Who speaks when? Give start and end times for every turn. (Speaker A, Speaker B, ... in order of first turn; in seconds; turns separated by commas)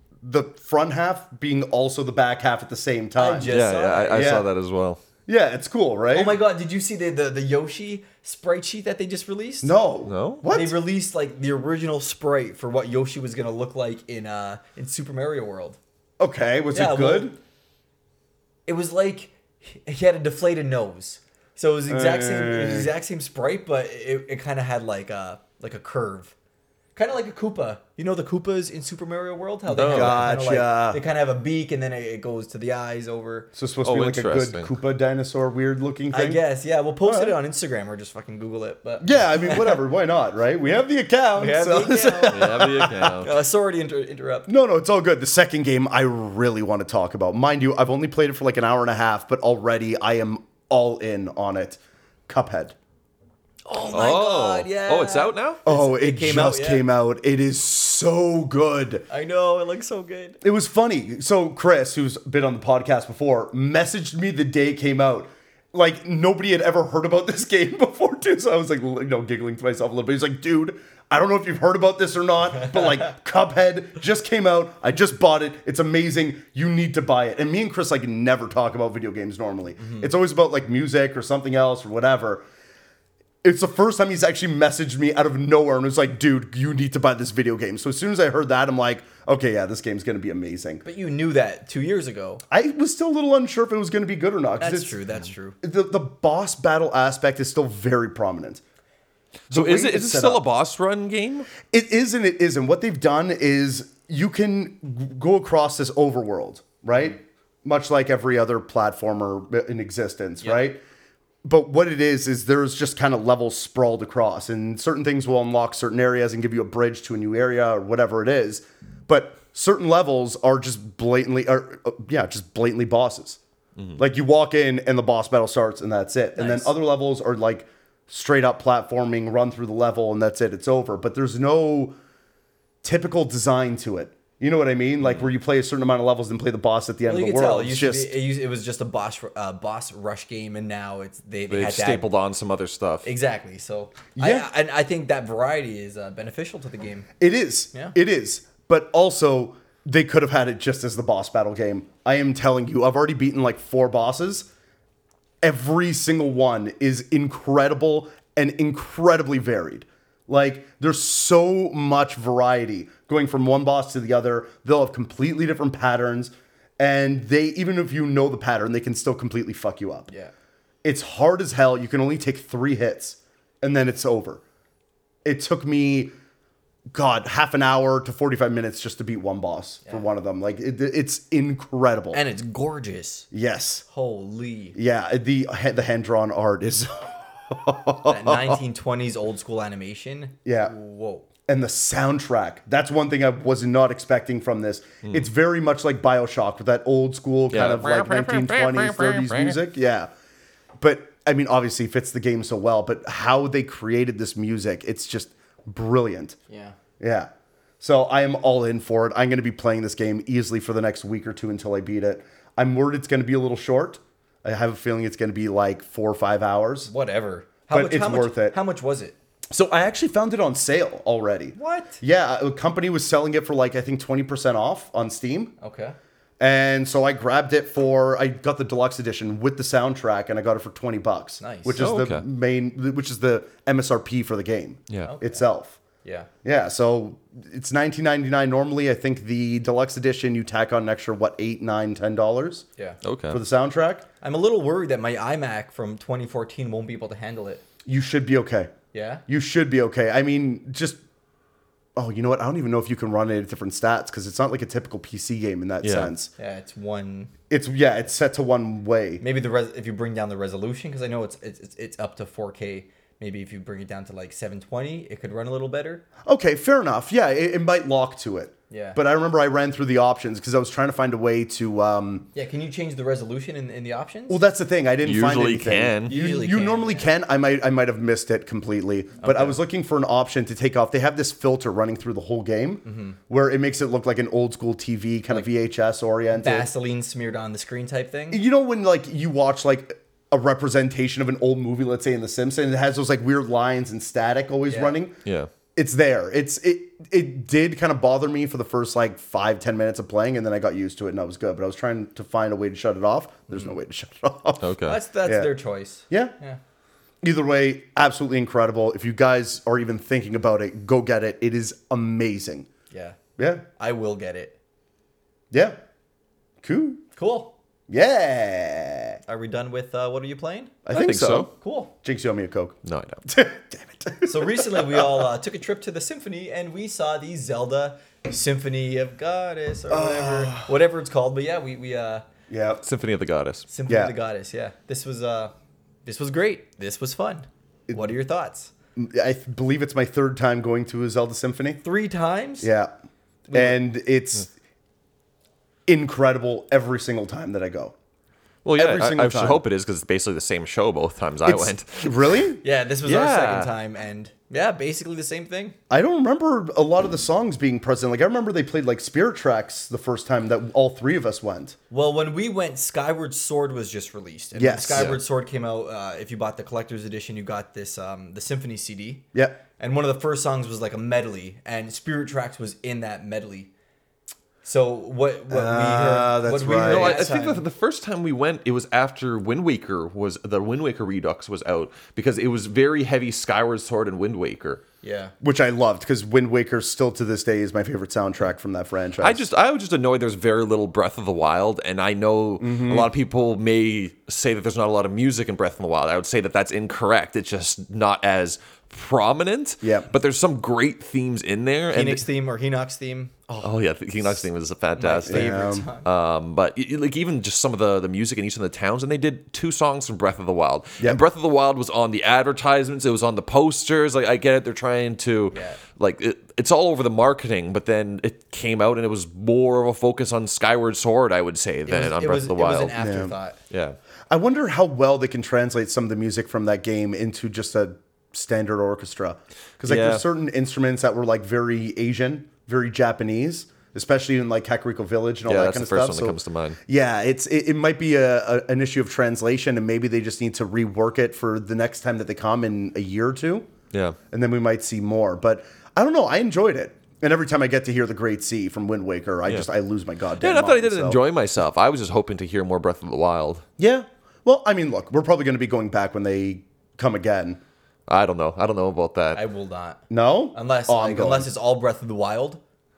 Speaker A: 0.2-3.5, Speaker B: 3.1-4.4, Speaker C: 3.5-5.0, Speaker A: 4.1-4.5, Speaker A: 5.3-6.4, Speaker B: 6.1-9.7, Speaker A: 9.6-10.8, Speaker C: 10.1-10.4, Speaker B: 10.4-15.8, Speaker A: 16.2-17.4, Speaker B: 16.7-17.4, Speaker B: 18.6-26.3, Speaker A: 21.9-22.9, Speaker B: 26.9-33.5, Speaker C: 29.7-30.3, Speaker A: 29.9-31.0, Speaker A: 33.5-36.4, Speaker C: 33.8-34.7, Speaker B: 36.1-39.8, Speaker A: 37.0-37.4, Speaker A: 39.0-43.2, Speaker B: 41.4-44.5, Speaker C: 42.3-43.3, Speaker A: 44.5-52.7, Speaker B: 53.6-56.9, Speaker C: 53.9-55.6, Speaker A: 55.6-59.0, Speaker B: 59.1-60.4, Speaker A: 60.4-82.4, Speaker B: 79.8-80.1, Speaker A: 83.4-90.8, Speaker B: 90.8-92.4, Speaker A: 92.5-95.0, Speaker B: 94.6-95.6, Speaker A: 95.6-98.6, Speaker A: 99.5-100.4, Speaker C: 99.5-101.5, Speaker A: 101.6-110.8, Speaker A: 111.4-123.4, Speaker A: 124.0-131.9, Speaker B: 126.3-126.7, Speaker A: 132.8-138.1, Speaker B: 137.1-142.1, Speaker C: 141.5-143.1, Speaker B: 143.0-147.1, Speaker A: 144.2-144.5, Speaker A: 147.2-154.5, Speaker A: 155.4-170.1, Speaker A: 170.8-174.4, Speaker A: 175.2-176.1, Speaker A: 176.9-182.2, Speaker B: 182.1-183.3, Speaker A: 183.3-183.8, Speaker B: 183.9-184.8, Speaker A: 184.7-188.6, Speaker B: 188.1-191.2, Speaker A: 190.4-190.7, Speaker A: 191.4-200.1, Speaker C: 197.5-199.6, Speaker A: 200.8-206.3, Speaker B: 206.5-206.7, Speaker A: 207.0-207.3, Speaker A: 207.8-216.9, Speaker B: 216.9-219.1, Speaker A: 217.7-218.6, Speaker A: 219.5-225.5, Speaker B: 221.6-222.0, Speaker B: 225.6-225.9, Speaker A: 226.4-235.8, Speaker B: 231.4-231.8, Speaker C: 231.8-232.2, Speaker B: 235.0-235.4, Speaker A: 236.4-242.6, Speaker C: 243.0-243.4, Speaker A: 243.3-244.1, Speaker B: 244.2-247.6, Speaker A: 247.8-248.7, Speaker B: 248.9-249.2, Speaker A: 249.3-251.0, Speaker A: 251.9-256.3, Speaker C: 255.8-256.1, Speaker B: 256.4-257.3, Speaker A: 257.5-259.2, Speaker B: 259.2-266.0, Speaker A: 266.2-272.3, Speaker B: 268.7-269.0, Speaker B: 272.3-274.4, Speaker A: 274.3-286.7, Speaker C: 275.0-276.1, Speaker B: 276.1-277.1, Speaker B: 279.2-279.6, Speaker B: 282.8-283.2, Speaker B: 286.3-288.4, Speaker A: 288.3-295.1, Speaker B: 294.7-294.9, Speaker C: 295.2-295.5, Speaker A: 295.7-305.5, Speaker C: 304.6-305.0, Speaker B: 304.8-306.6, Speaker A: 307.2-312.7, Speaker B: 312.9-313.2, Speaker A: 313.4-313.6, Speaker B: 313.8-314.6, Speaker A: 315.5-315.8, Speaker A: 316.6-317.0, Speaker B: 317.1-317.5, Speaker A: 317.9-319.2, Speaker B: 319.3-320.8, Speaker A: 320.9-321.5, Speaker C: 320.9-321.5, Speaker B: 321.5-321.9, Speaker A: 322.0-325.3, Speaker C: 322.8-323.2, Speaker B: 324.2-332.2, Speaker A: 329.9-330.7, Speaker A: 332.5-332.8, Speaker C: 332.8-333.7, Speaker B: 333.7-335.5, Speaker A: 333.9-334.1, Speaker B: 336.0-338.7, Speaker A: 338.9-341.8, Speaker B: 341.8-342.7, Speaker A: 342.6-342.9, Speaker B: 343.5-343.8, Speaker A: 343.5-344.5, Speaker A: 345.9-347.9, Speaker C: 348.6-352.4, Speaker A: 348.7-349.6, Speaker A: 351.4-352.6, Speaker B: 352.6-355.8, Speaker C: 353.0-353.7, Speaker A: 355.9-361.8, Speaker B: 361.9-369.2, Speaker A: 364.6-365.1, Speaker A: 369.3-369.6, Speaker B: 369.8-373.7, Speaker B: 374.6-377.6, Speaker A: 375.5-377.3, Speaker C: 376.9-384.8, Speaker B: 385.0-385.3, Speaker A: 385.4-389.4, Speaker C: 389.2-402.2, Speaker A: 392.6-393.1, Speaker A: 399.8-400.1, Speaker B: 401.9-404.4, Speaker C: 403.6-423.0, Speaker B: 404.9-406.1, Speaker A: 405.3-405.9, Speaker B: 415.5-415.8, Speaker B: 421.9-423.6, Speaker A: 423.0-423.3, Speaker C: 423.7-424.0, Speaker A: 424.3-443.7, Speaker C: 429.8-430.2, Speaker C: 435.4-436.8, Speaker C: 443.9-444.2, Speaker A: 444.3-451.2, Speaker C: 450.4-453.6, Speaker A: 453.8-457.6, Speaker C: 458.1-459.4, Speaker B: 459.3-460.0, Speaker A: 460.1-461.5, Speaker B: 460.5-462.6